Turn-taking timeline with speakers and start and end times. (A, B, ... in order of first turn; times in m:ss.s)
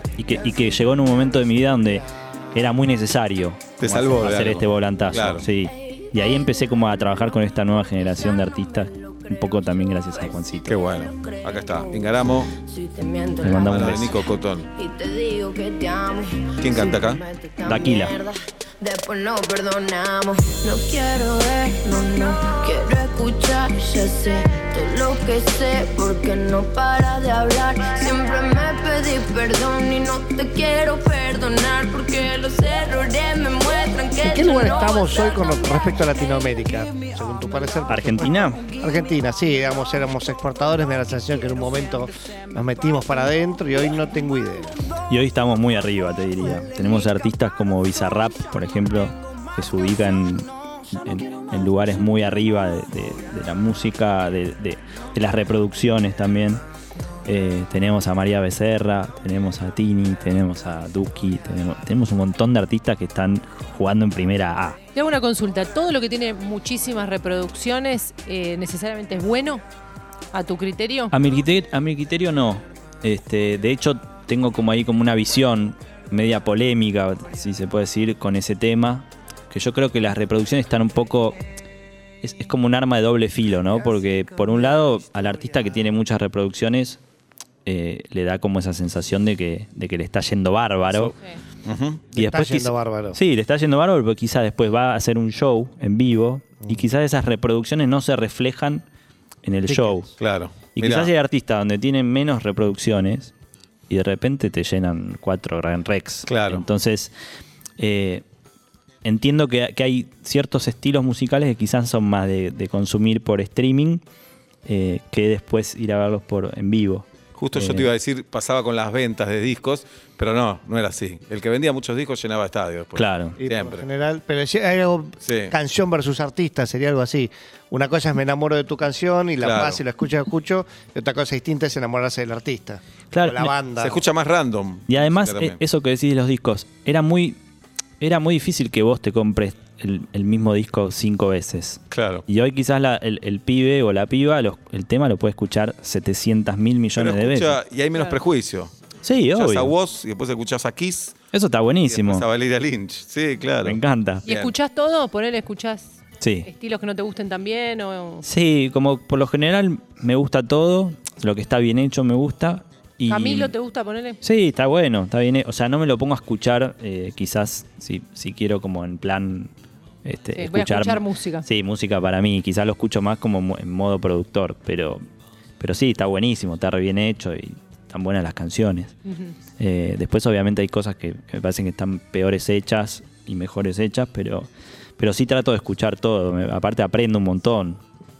0:00.2-0:10.8 A
0:03.8-0:05.4 B
0:09.0-0:09.2 C
0:10.7-0:12.5 B
0:11.0-0:13.9 C
0:13.4-0:14.1 A
0:13.6-0:14.7 B
0:14.7-0:35.9 C
0:16.6-0:17.2 B
0:17.6-0:18.1 A
0:34.2-0:44.7 D
0:37.9-0:38.6 A
0:45.1-0:56.6 A
0:57.2-1:04.8 A
1:04.9-1:09.6 E
1:10.3-1:11.1 E
1:11.1-1:21.4 A
1:22.2-1:27.0 A
1:27.6-1:31.1 A
1:31.6-1:32.1 B
1:32.1-1:33.2 D
1:32.1-1:38.8 A
1:39.4-1:40.1 A
1:39.7-1:41.1 B
1:40.7-1:43.3 A
1:43.9-1:47.1 A
1:46.3-1:46.6 B
1:47.8-1:48.2 A
1:49.0-1:54.0 A
1:54.6-1:57.9 A
1:57.3-2:03.8 B
2:02.9-2:03.4 A
2:03.4-2:14.0 D
2:05.2-2:05.5 B
2:09.4-2:09.8 B
2:13.1-2:13.5 A
2:13.8-2:15.6 B
2:14.9-2:17.4 A
2:18.0-2:27.6 A
2:21.9-2:22.2 B
2:27.0-2:28.7 B
2:29.0-2:29.7 A
2:29.3-2:31.2 B
2:31.3-2:32.2 A
2:31.8-2:34.5 B
2:33.6-2:34.2 A
2:34.2-2:38.2 E
2:36.2-2:36.5 A
2:38.2-2:43.5 A
2:43.1-2:44.2 E
2:44.2-2:49.5 A
2:50.0-2:55.0 A
2:50.4-2:51.4 E
2:55.6-2:58.9 A
2:59.0-2:59.3 E
2:59.6-3:07.8 A